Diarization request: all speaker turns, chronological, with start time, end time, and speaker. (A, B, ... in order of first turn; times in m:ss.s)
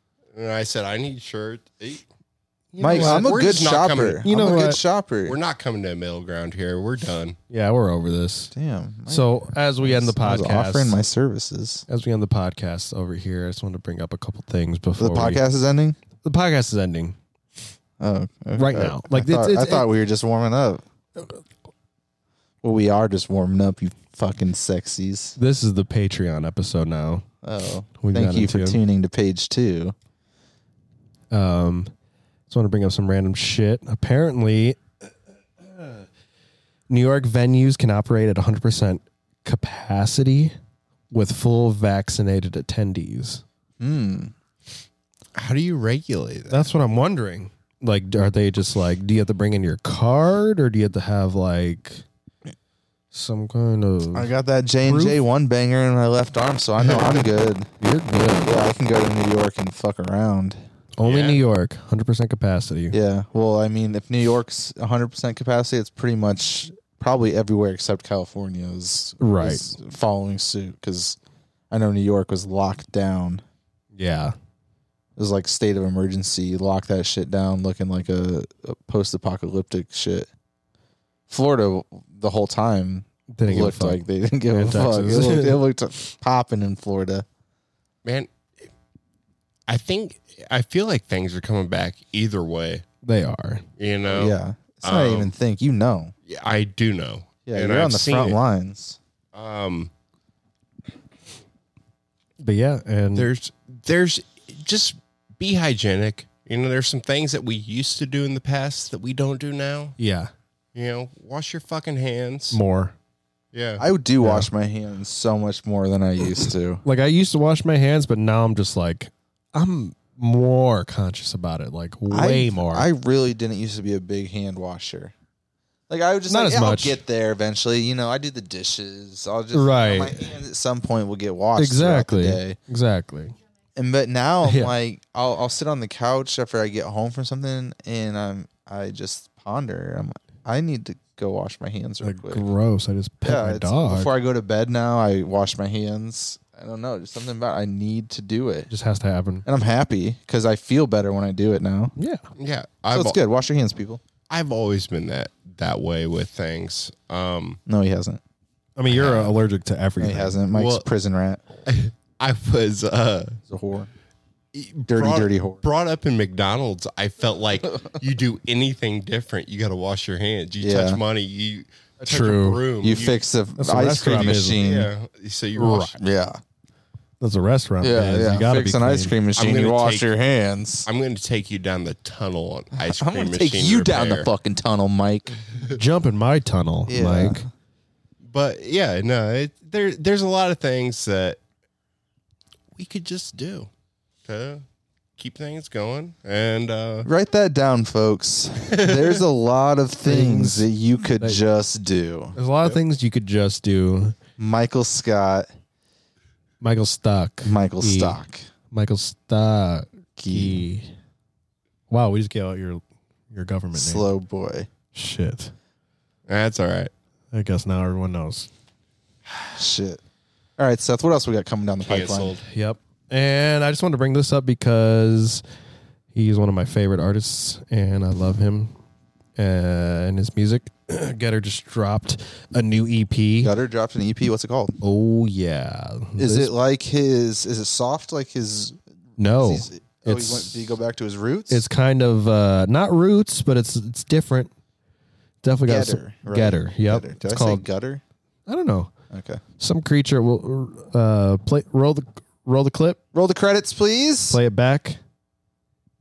0:00.3-0:02.0 A
0:02.7-0:03.3 B
0:02.8-0:05.4 C
0:02.8-0:04.3 A
0:04.2-0:04.8 B
0:05.3-0:07.4 A
0:07.5-0:08.5 B
0:08.5-0:11.8 C
0:09.1-0:11.0 B
0:11.9-0:15.4 B
0:15.0-0:16.0 C
0:16.2-0:17.2 B
0:18.0-0:20.8 C
0:18.6-0:19.9 B
0:22.6-0:25.4 C
0:25.4-0:27.2 B
0:27.4-0:30.0 C
0:28.0-0:28.8 B
0:31.3-0:31.9 B
0:32.5-0:34.8 B
0:35.6-0:36.0 B
0:36.9-0:40.6 B
0:41.1-0:43.4 B
0:43.8-0:44.3 C
0:45.3-0:46.7 A
0:46.5-0:52.0 B
0:53.1-0:54.3 B
0:54.1-0:57.7 C
0:54.8-0:55.2 B
0:56.8-0:57.2 A
0:57.8-0:58.6 B
0:58.4-1:00.6 C
1:01.0-1:03.0 B
1:01.0-1:01.4 A
1:02.9-1:11.2 C
1:09.2-1:09.6 B
1:11.7-1:13.4 C
1:14.0-1:14.3 B
1:15.2-1:20.3 C
1:21.3-1:27.2 C
1:23.3-1:24.0 B
1:24.5-1:25.6 B
1:28.0-1:28.3 A
1:29.7-1:32.8 A
1:33.0-1:33.6 B
1:33.8-1:35.3 A
1:34.1-1:36.1 C
1:36.3-1:38.4 A
1:37.5-1:39.0 C
1:39.3-1:39.9 A
1:42.4-1:43.3 B
1:43.1-1:50.0 A
1:50.0-1:50.3 B
1:50.7-1:52.6 A
1:52.5-1:53.0 B
1:53.5-1:53.8 A
1:53.8-1:56.8 C
1:54.2-1:54.5 B
1:56.8-2:02.9 B
2:02.1-2:05.1 C
2:05.9-2:12.6 C
2:06.3-2:07.0 B
2:09.5-2:10.3 B
2:11.6-2:13.3 B
2:13.8-2:22.5 C
2:14.4-2:14.7 B
2:22.0-2:24.1 B
2:23.2-2:28.7 C
2:28.7-2:29.4 B
2:29.4-2:32.0 C
2:32.0-2:32.3 B
2:32.4-2:33.2 A
2:32.9-2:34.0 C
2:34.3-2:37.6 A
2:37.7-2:38.2 C
2:38.8-2:40.4 B
2:38.9-2:39.3 A
2:40.0-2:41.4 C
2:40.5-2:40.9 A
2:41.7-2:43.4 A
2:43.5-2:43.9 C
2:44.5-2:53.2 A
2:44.9-2:45.6 C
2:50.6-2:51.0 C
2:52.0-2:52.6 B
2:52.8-2:54.9 C
2:53.6-2:54.6 B
2:54.1-2:56.0 A
2:55.6-2:56.0 B
2:56.0-2:56.4 C
2:57.2-2:59.2 B
2:57.8-3:00.9 C
2:59.3-3:00.1 A
3:00.9-3:04.3 A
3:02.8-3:05.4 C
3:05.5-3:05.8 A
3:05.7-3:07.4 B
3:06.9-3:07.5 C
3:08.3-3:11.4 A
3:12.8-3:13.7 A
3:14.3-3:14.6 A
3:15.2-3:17.1 A
3:17.0-3:22.4 C
3:18.7-3:19.2 A
3:20.0-3:20.7 B
3:22.4-3:24.2 B
3:24.4-3:25.5 C
3:26.6-3:30.9 B
3:27.4-3:28.4 C
3:30.2-3:30.7 C
3:31.9-3:34.1 B
3:33.7-3:34.7 C
3:34.9-3:35.5 B
3:36.3-3:36.9 A
3:37.3-3:38.5 B
3:39.6-3:40.0 C
3:40.6-3:42.4 C
3:41.8-3:42.4 A
3:42.5-3:45.4 B
3:46.1-3:48.7 B
3:49.4-3:53.5 B
3:53.4-3:54.8 C
3:54.8-3:56.5 B
3:56.2-3:58.8 C
3:59.2-4:00.8 B
3:59.3-4:01.6 C
4:01.5-4:04.5 B
4:05.4-4:07.6 B
4:05.7-4:08.0 C
4:08.5-4:08.9 B
4:09.1-4:09.4 C
4:09.6-4:13.0 B
4:13.1-4:14.4 C
4:14.3-4:15.0 B